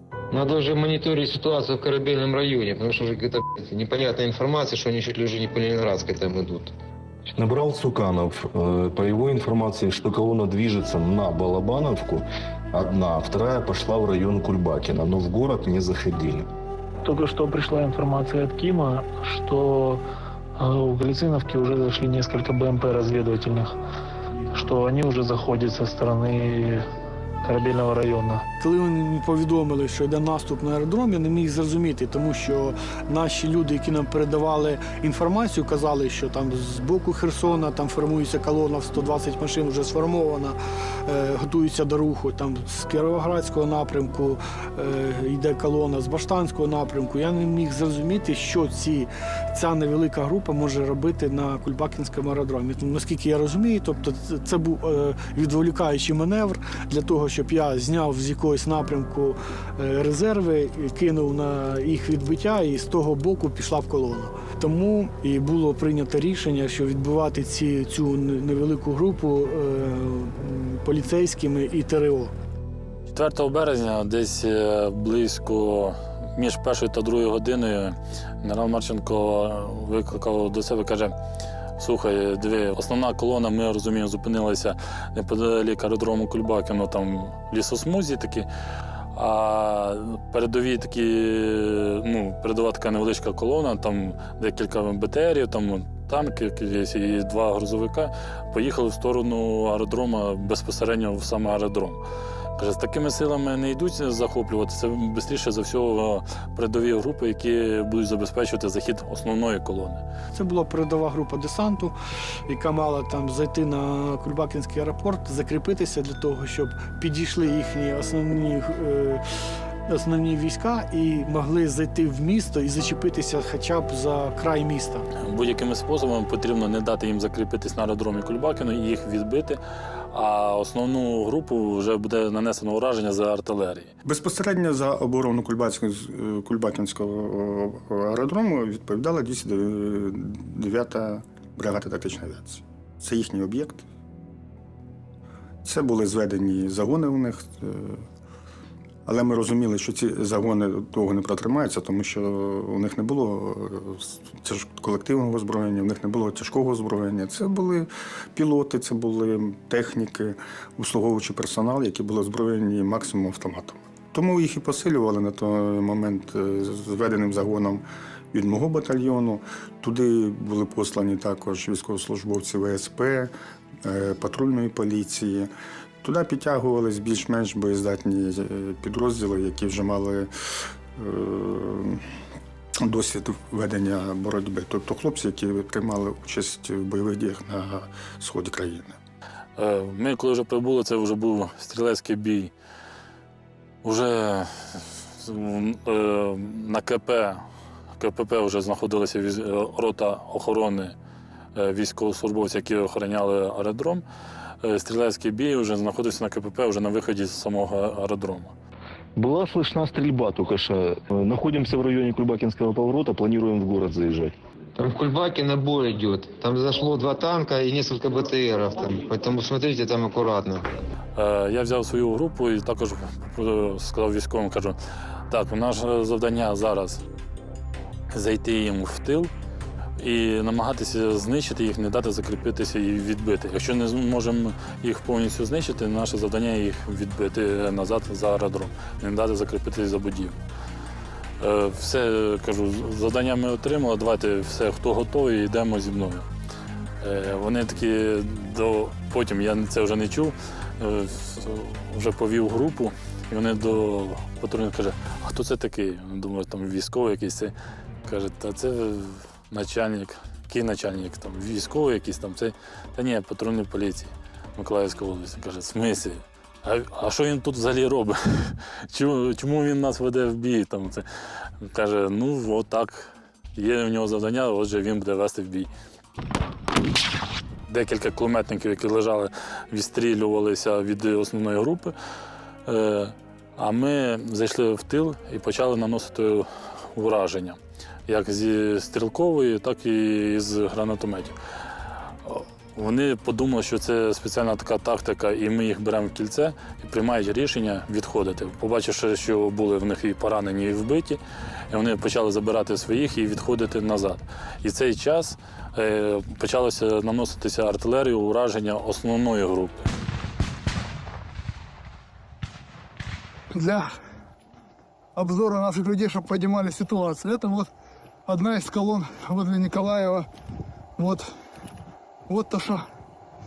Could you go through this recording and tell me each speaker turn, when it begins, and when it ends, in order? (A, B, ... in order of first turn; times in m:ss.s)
0:00.3-0:06.7 A
0:07.3-0:16.5 B
0:17.0-0:20.0 C
0:20.6-0:23.7 C
0:24.5-0:26.9 C
0:27.4-0:28.4 C
0:28.6-1:12.3 D
1:13.1-1:21.1 E
1:21.8-1:28.5 E
1:29.1-1:42.0 E
1:42.6-1:50.0 E
1:50.3-1:52.0 D
1:52.5-1:59.2 D
1:59.9-2:05.0 D
2:05.2-2:09.6 E
2:10.1-2:13.9 E
2:14.0-2:23.8 F
2:25.6-2:28.0 F
2:29.1-2:53.3 F
2:53.8-2:55.5 F
2:56.0-3:00.3 F
3:01.0-3:02.0 F
3:02.8-3:09.0 F
3:09.6-3:12.5 E
3:13.8-3:17.4 E
3:18.0-3:21.0 E
3:21.6-3:24.0 E
3:24.6-3:28.5 E
3:34.8-3:40.7 A
3:41.2-3:44.8 E
3:45.3-3:47.0 E
3:48.1-3:49.3 E
3:50.0-4:00.4 E
4:01.4-4:06.3 E
4:07.0-4:17.5 E
4:18.1-4:31.0 E
4:31.6-4:35.7 E
4:37.7-4:41.9 E
4:42.7-4:51.4 E
4:52.2-5:01.2 E
5:01.7-5:09.8 E
5:13.5-5:13.9 G
5:15.2-5:17.7 G
5:18.3-5:20.3 G
5:21.0-5:21.3 G
5:22.3-5:22.8 G